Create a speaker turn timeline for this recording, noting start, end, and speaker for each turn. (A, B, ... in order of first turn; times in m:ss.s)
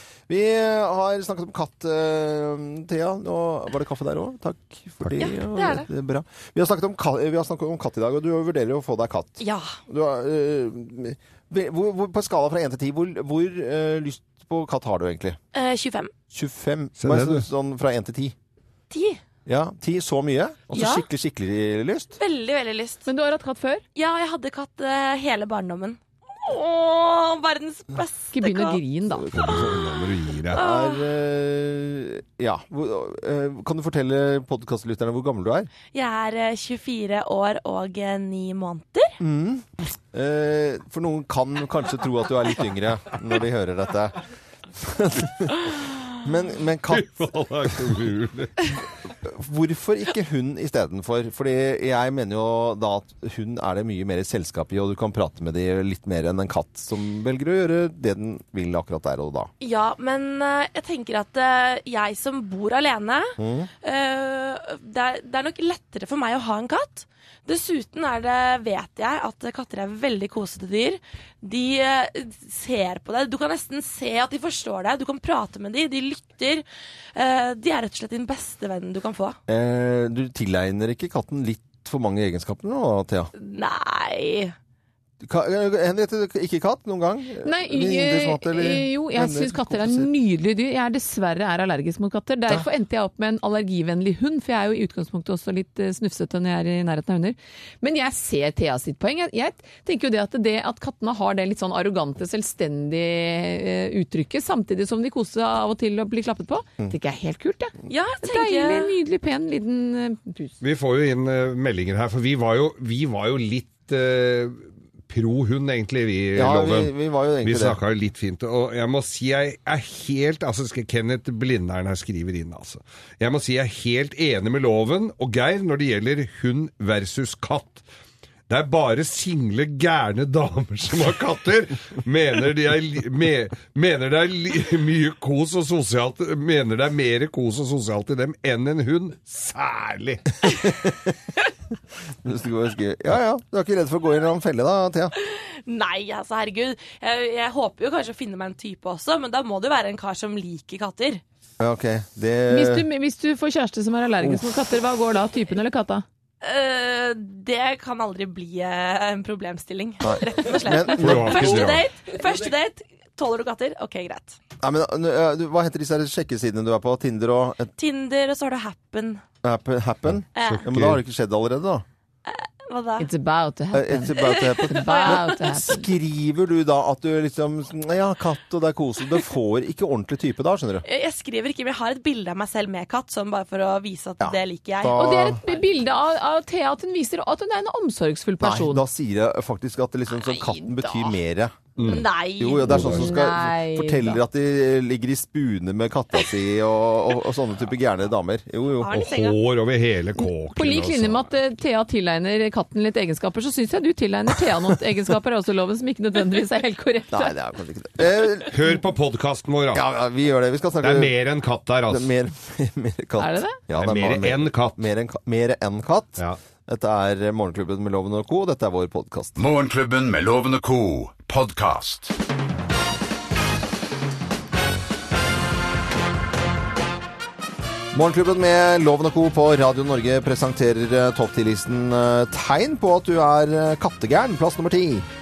0:00.3-0:15.4 A
0:05.2-0:05.9 B
0:09.4-0:09.8 B
0:15.5-0:16.1 B
0:16.3-0:18.4 A
0:17.0-0:17.5 C
0:18.9-0:19.2 B
0:19.5-0:22.2 A
0:20.7-0:21.0 B
0:22.2-0:23.1 B
0:23.1-0:23.8 D
0:24.0-0:28.8 B
0:28.3-0:29.3 D
0:29.1-0:29.8 A
0:29.3-0:30.6 C
0:29.4-0:29.9 B
0:30.5-0:31.0 B
0:30.5-0:35.7 A
0:35.9-0:39.2 B
0:39.2-0:44.2 A
0:44.8-0:47.2 A
0:46.9-0:48.7 C
0:49.2-0:59.5 A
0:59.6-1:16.6 B
1:03.4-1:03.7 A
1:17.2-1:19.4 B
1:19.5-1:23.3 A
1:23.4-1:24.6 B
1:25.2-1:30.1 A
1:27.4-1:50.6 D
1:47.9-1:49.0 B
1:50.6-2:07.8 C
1:56.4-1:57.8 A
2:08.5-2:20.7 C
2:22.2-2:25.1 A
2:25.2-2:31.2 B
2:31.6-2:32.9 A
2:32.5-2:36.0 D
2:36.4-2:44.4 B
2:40.0-2:41.7 A
2:41.0-2:41.9 C
2:44.6-2:47.7 A
2:47.8-2:49.2 B
2:49.4-2:51.8 A
2:50.4-2:50.6 B
2:50.4-2:51.0 C
2:52.3-2:53.1 B
2:53.0-2:55.9 D
2:53.7-3:00.8 A
2:54.2-2:55.4 B
3:00.8-3:05.0 B
3:04.2-3:05.4 A
3:05.0-3:08.8 D
3:08.4-3:19.1 A
3:10.1-3:11.2 D
3:11.8-3:12.1 C
3:11.9-3:12.8 B
3:12.7-3:13.0 C
3:12.7-3:14.2 D
3:18.8-3:19.4 B
3:18.9-3:21.3 C
3:20.2-3:27.3 D
3:27.1-3:28.6 A
3:28.5-3:29.8 C
3:29.7-3:31.1 A
3:30.8-3:32.1 C
3:31.9-3:39.4 A
3:33.2-3:33.6 D
3:33.8-3:34.8 C
3:39.4-3:42.1 E
3:47.9-3:55.1 A